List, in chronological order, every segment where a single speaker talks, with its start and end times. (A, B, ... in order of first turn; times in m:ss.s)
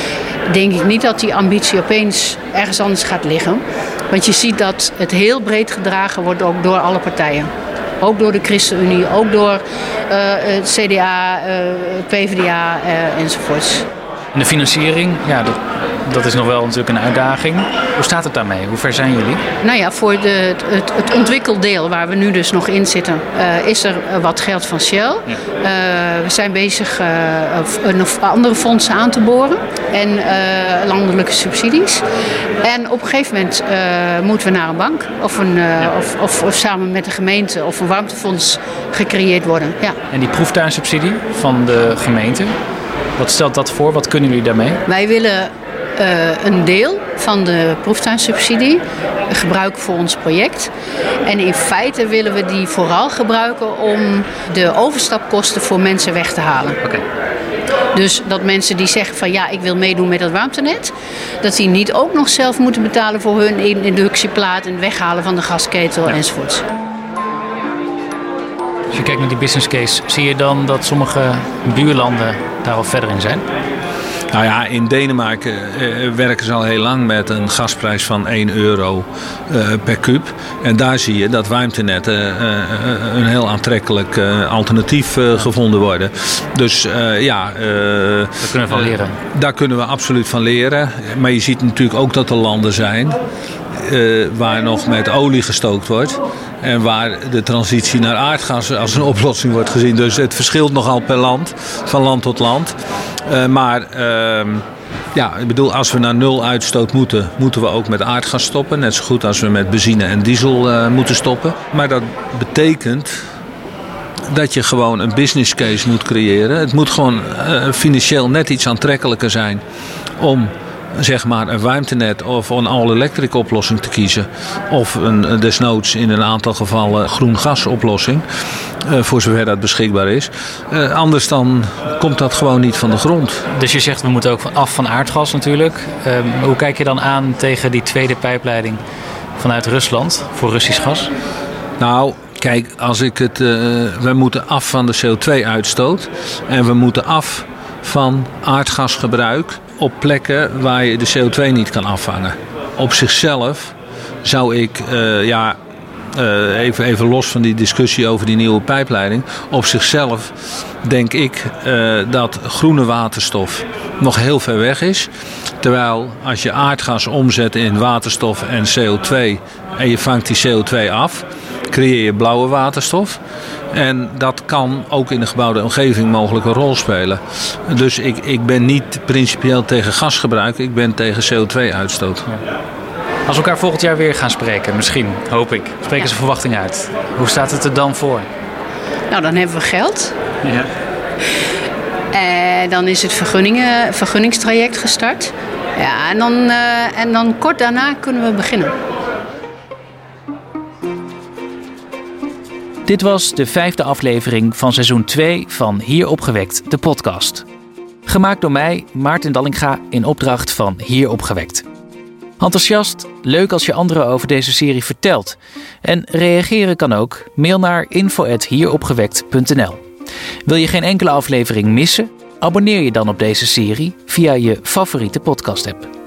0:00.5-0:13.8 A
0:14.3-0:19.4 B
0:19.6-0:32.0 A
0:32.6-0:40.0 A
0:40.1-0:42.6 B
0:43.2-0:44.8 B
0:44.8-0:50.7 A
0:51.2-0:56.8 A
0:57.9-1:06.6 A
1:08.9-1:13.4 B
1:14.3-1:33.2 C
1:28.4-1:29.2 B
1:33.7-1:42.7 C
1:43.2-1:53.2 C
1:54.3-1:59.6 C
2:00.2-2:08.2 C
2:08.8-2:13.4 C
2:13.5-2:18.8 B
2:19.4-2:21.1 B
2:21.8-2:35.6 C
2:36.1-2:45.1 C
2:45.6-2:53.2 C
2:53.7-3:02.3 C
3:03.3-3:08.3 B
3:09.1-3:10.1 A
3:10.4-3:10.7 B
3:12.1-3:18.7 A
3:22.8-3:27.4 B
3:28.0-3:31.6 B
3:32.4-3:39.8 B
3:40.4-3:45.9 B